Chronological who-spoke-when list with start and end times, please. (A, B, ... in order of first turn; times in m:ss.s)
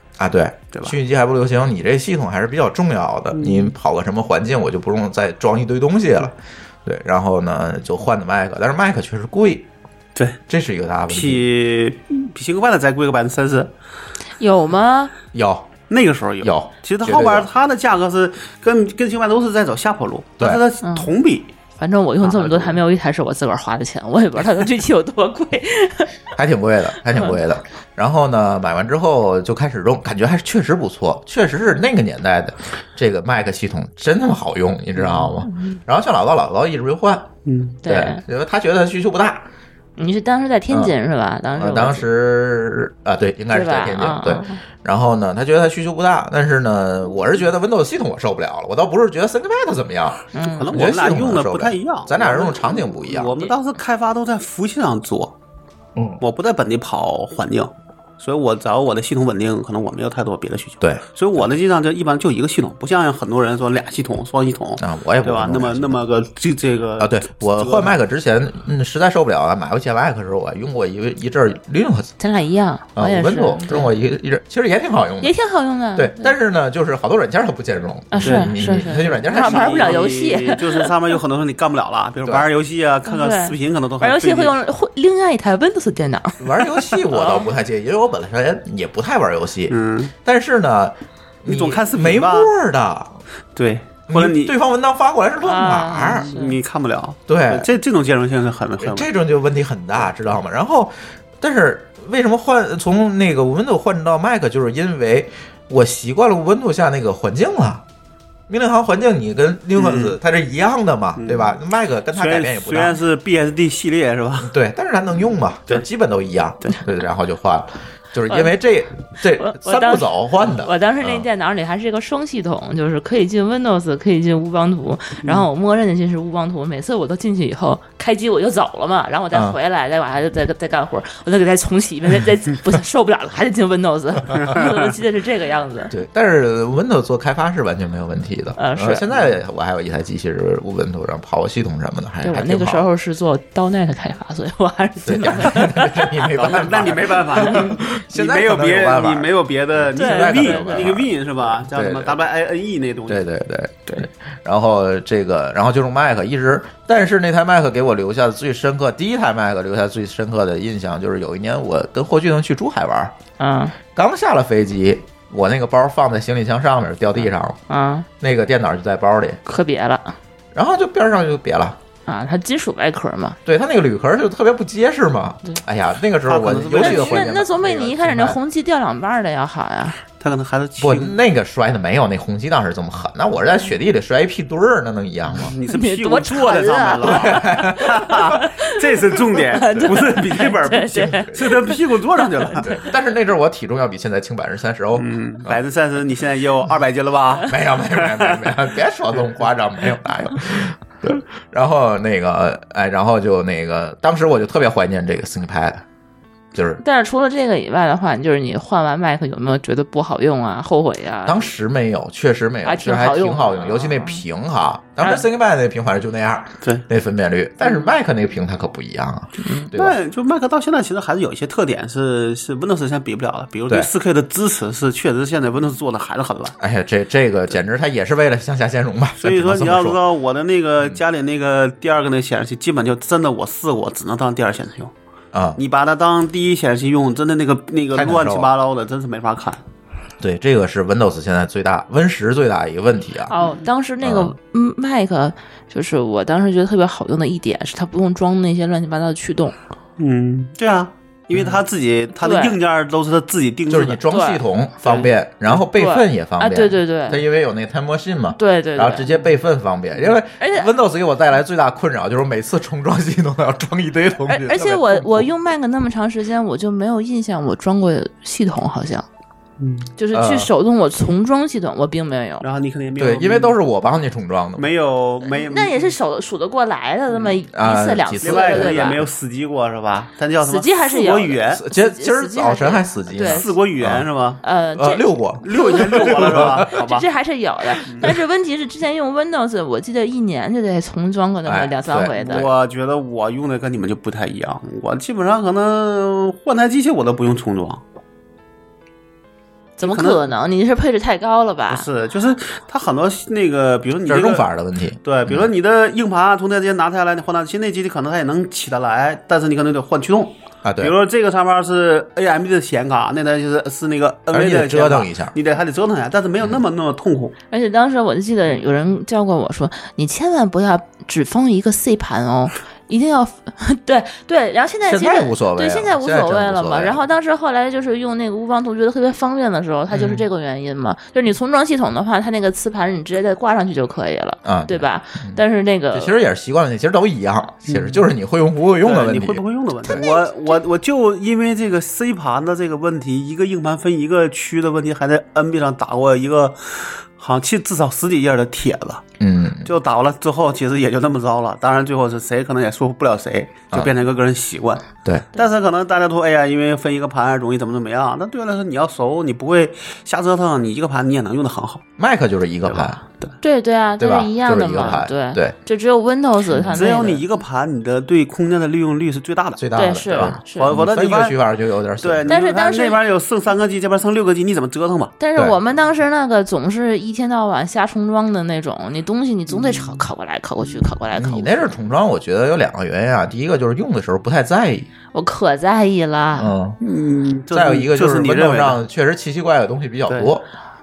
0:00.2-0:09.7 A
0:00.7-0:01.0 B
0:03.3-0:03.7 B
0:10.5-0:11.5 A
0:11.1-0:13.7 B
0:14.4-0:15.1 C
0:15.3-0:15.7 A
0:15.9-0:21.5 B
0:16.4-0:17.5 A
0:20.8-0:21.1 C
0:21.8-0:26.1 C
0:22.2-0:22.8 B
0:26.3-0:37.3 A
0:35.4-0:35.8 C
0:37.4-0:37.8 B
0:37.8-0:38.2 C
0:37.8-0:39.4 A
0:40.0-0:42.1 C
0:41.5-0:53.4 A
0:43.5-0:44.6 C
0:50.3-0:50.7 C
0:50.5-0:55.3 B
0:56.0-0:56.2 A
0:56.2-1:07.9 B
1:04.8-1:06.0 A
1:07.0-1:12.1 A
1:12.2-1:13.9 C
1:12.9-1:15.3 A
1:15.2-1:16.3 C
1:15.9-1:20.0 A
1:18.1-1:20.9 C
1:18.2-1:24.6 B
1:23.1-1:26.4 C
1:26.4-1:33.2 A
1:27.1-1:27.5 C
1:29.7-1:30.1 B
1:31.4-1:32.5 B
1:33.6-1:34.6 B
1:34.1-1:36.3 A
1:35.4-1:36.6 C
1:36.0-1:39.1 B
1:37.3-1:37.7 A
1:38.8-1:47.8 A
1:48.5-1:53.0 A
1:49.8-1:50.2 B
1:51.2-1:51.6 B
1:52.1-1:54.5 B
1:54.4-2:01.2 A
1:59.4-2:15.9 C
2:15.9-2:22.9 A
2:18.6-2:19.0 C
2:22.2-2:26.1 C
2:25.0-2:31.1 A
2:26.3-2:33.3 B
2:29.9-2:31.0 C
2:31.6-2:32.2 A
2:33.1-2:43.2 A
2:43.4-2:43.7 C
2:43.9-2:47.6 A
2:47.7-2:48.1 C
2:48.2-2:49.4 A
2:49.4-2:50.2 C
2:50.5-2:51.8 A
2:52.1-2:53.4 C
2:53.4-2:58.4 A
2:56.2-2:57.5 B
2:56.8-3:00.0 C
3:00.2-3:01.2 B
3:00.8-3:05.5 A
3:05.3-3:12.8 B
3:05.7-3:11.7 C
3:07.0-3:08.3 A
3:09.7-3:10.0 A
3:12.6-3:15.6 A
3:15.0-3:18.6 B
3:17.4-3:25.8 A
3:26.5-3:26.8 A
3:26.8-3:31.5 C
3:31.2-3:40.0 A
3:32.6-3:34.2 C
3:36.6-3:36.9 B
3:39.4-3:39.7 C
3:39.7-3:46.6 B
3:46.6-3:50.0 A
3:49.2-3:54.9 B
3:55.3-3:55.6 A
3:55.6-3:59.6 B
3:57.9-3:58.5 A
4:00.2-4:03.3 A
4:03.3-4:09.6 C
4:04.0-4:04.3 A
4:10.0-4:14.0 B
4:11.3-4:11.6 A
4:12.2-4:12.6 C
4:13.7-4:25.3 A
4:14.1-4:14.4 C
4:15.7-4:17.2 C
4:18.4-4:19.1 C
4:20.4-4:20.7 C
4:24.3-4:29.0 C
4:29.6-4:29.9 B
4:30.0-4:32.4 C
4:30.1-4:30.5 A
4:32.4-4:33.6 B
4:33.0-4:34.7 A
4:34.6-4:35.9 B
4:35.3-4:39.0 C
4:37.5-4:38.9 A
4:38.2-4:41.6 B
4:40.4-4:43.5 C
4:41.5-4:44.1 A
4:43.2-4:44.4 B
4:44.4-4:52.4 C
4:44.8-4:46.6 A
4:45.4-4:47.0 B
4:47.8-4:48.1 B
4:51.4-4:52.5 A
4:52.2-4:57.8 B
4:59.8-5:01.8 C
4:59.8-5:00.3 B
5:01.7-5:04.5 B
5:04.0-5:05.5 A
5:05.0-5:17.4 B
5:10.6-5:10.9 A
5:14.3-5:15.3 A
5:17.5-5:36.1 C
5:24.9-5:27.0 A
5:29.9-5:30.2 A
5:34.4-5:35.4 A
5:35.9-5:40.0 A
5:37.7-5:38.0 B
5:38.8-5:49.0 B
5:39.9-5:40.6 C
5:49.2-5:49.7 A
5:49.6-6:01.9 B
6:02.0-6:03.0 A
6:02.6-6:03.4 B
6:03.4-6:07.2 C
6:04.0-6:05.5 A
6:06.5-6:07.0 A
6:06.7-6:11.4 B
6:09.6-6:12.4 A
6:09.8-6:10.7 C
6:12.0-6:15.2 B
6:12.3-6:13.0 C
6:15.2-6:21.7 C
6:19.5-6:20.0 B
6:21.1-6:24.9 A
6:25.1-6:26.5 C
6:26.3-6:26.8 A
6:26.8-6:28.8 B
6:27.5-6:30.4 A
6:30.1-6:30.3 B